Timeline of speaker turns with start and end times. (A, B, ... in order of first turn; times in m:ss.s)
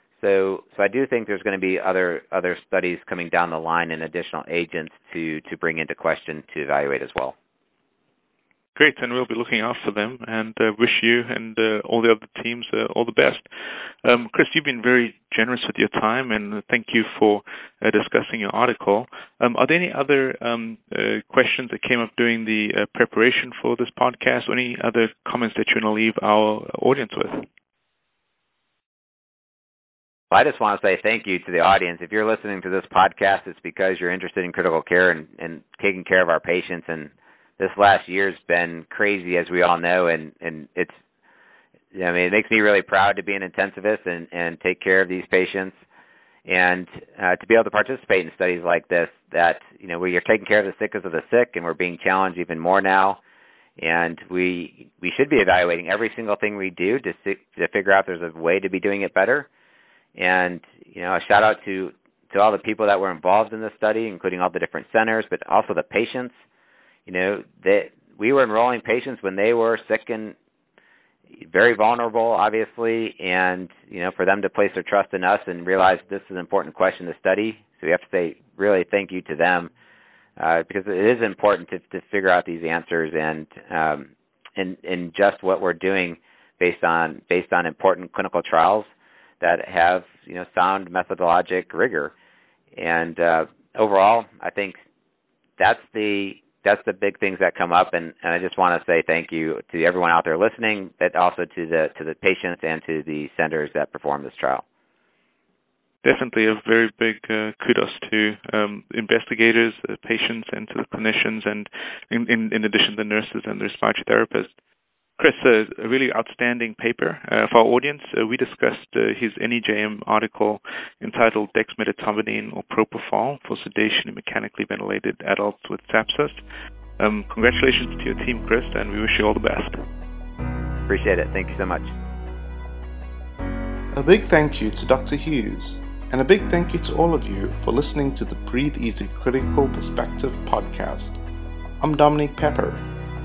0:00.2-0:07.3 A
0:08.8-0:13.4 B
0:14.0-0:27.5 B
0:30.3-0:41.0 A
0:41.9-0:45.8 A
0:46.4-0:53.2 A
0:53.8-0:59.5 A
1:00.2-1:06.3 A
1:07.0-1:10.3 A
1:11.4-1:19.7 A
1:20.4-1:28.9 A
1:29.4-1:32.1 A
1:32.8-1:34.8 A
1:35.6-1:44.6 A
1:46.0-1:54.5 B
1:55.2-2:06.4 B
2:07.0-2:09.8 B
2:10.9-2:11.9 A
2:13.9-2:21.2 C
2:21.8-2:22.8 C